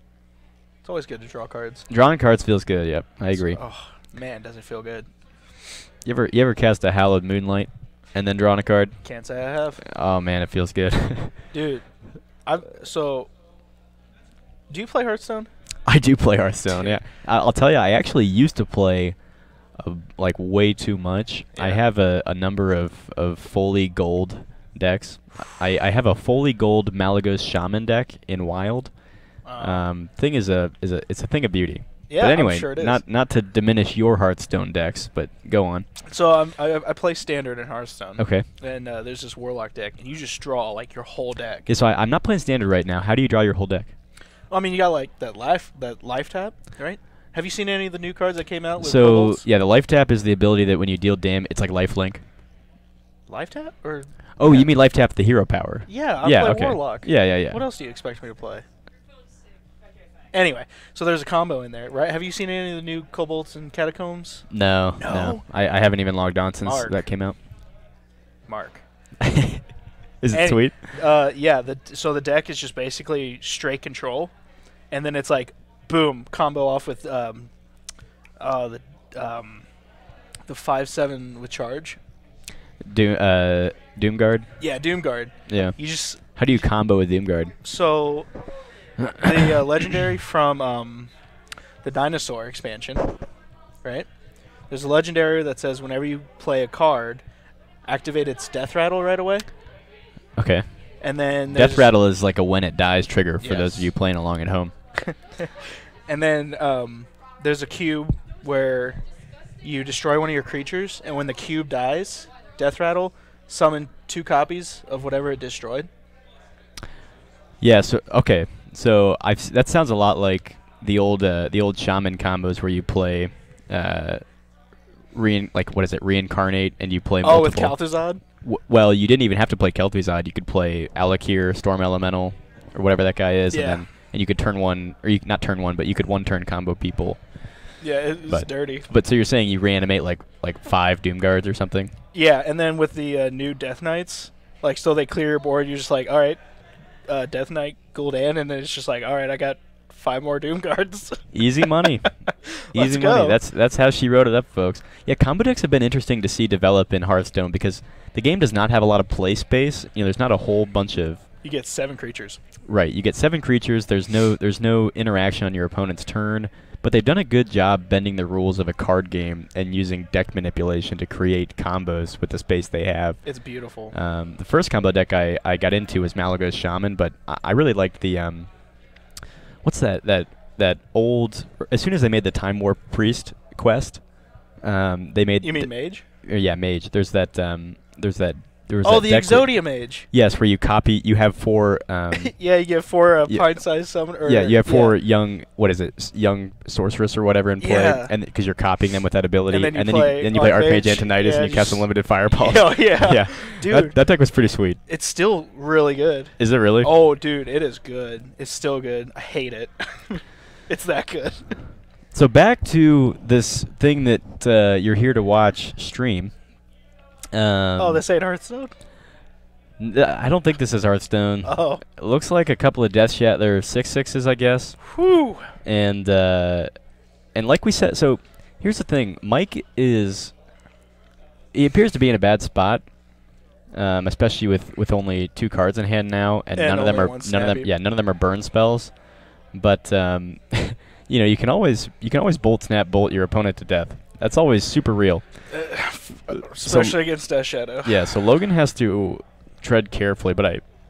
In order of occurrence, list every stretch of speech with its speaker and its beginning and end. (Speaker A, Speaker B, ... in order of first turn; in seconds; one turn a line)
Speaker A: 0.8-1.9
Speaker B: 1.9-3.6
Speaker A: 3.3-5.1
Speaker B: 6.0-9.0
Speaker A: 9.0-9.8
Speaker B: 9.8-11.4
Speaker A: 11.5-13.3
Speaker A: 14.7-15.5
Speaker B: 15.8-35.9
Speaker A: 16.7-17.0
Speaker A: 21.5-21.8
Speaker A: 29.4-29.9
Speaker A: 32.1-33.0
Speaker A: 36.1-41.7
Speaker B: 38.2-38.5
Speaker B: 41.7-43.9
Speaker A: 44.5-49.4
Speaker B: 48.8-52.2
Speaker A: 53.3-54.7
Speaker B: 54.4-57.6
Speaker A: 55.9-58.6
Speaker A: 60.3-65.4
Speaker B: 64.5-67.4
Speaker A: 66.6-67.0
Speaker A: 68.5-68.8
Speaker B: 69.2-71.0
Speaker A: 70.3-74.3
Speaker A: 74.9-77.5
Speaker A: 78.4-79.7
Speaker A: 80.5-82.0
Speaker B: 82.8-84.5
Speaker A: 84.6-86.3
Speaker B: 85.5-85.8
Speaker B: 86.3-87.5
Speaker A: 87.6-88.3
Speaker B: 89.0-89.4
Speaker A: 89.2-91.1
Speaker A: 91.8-93.1
Speaker A: 93.8-94.1
Speaker A: 94.7-97.2
Speaker A: 97.8-99.5
Speaker B: 100.3-100.7
Speaker A: 101.0-101.9
Speaker B: 101.5-104.7
Speaker A: 103.4-103.9
Speaker A: 105.0-109.1
Speaker A: 109.6-115.9
Speaker B: 117.6-124.5
Speaker B: 125.1-127.8
Speaker A: 127.2-128.2
Speaker B: 128.4-137.7
Speaker A: 133.5-133.8
Speaker A: 137.8-138.9
Speaker B: 138.3-141.9
Speaker A: 142.1-146.4
Speaker A: 147.1-153.4
Speaker B: 151.3-152.1
Speaker B: 152.7-161.2
Speaker A: 161.4-162.4
Speaker B: 162.7-179.1
Speaker A: 173.2-173.9
Speaker B: 179.6-192.3
Speaker A: 185.4-186.0
Speaker A: 188.8-190.1
Speaker A: 192.1-194.9
Speaker B: 193.3-204.8
Speaker A: 197.6-198.1
Speaker A: 199.5-204.0
Speaker A: 204.9-211.6
Speaker B: 206.4-206.9
Speaker B: 212.1-216.6
Speaker B: 217.3-218.0
Speaker A: 217.8-218.7
Speaker B: 219.8-224.8
Speaker A: 221.4-221.8
Speaker A: 224.8-225.5
Speaker B: 225.6-226.7
Speaker B: 227.3-230.3
Speaker B: 231.5-245.5
Speaker A: 236.6-237.7
Speaker A: 245.5-248.2
Speaker B: 246.6-247.0
Speaker B: 247.8-250.6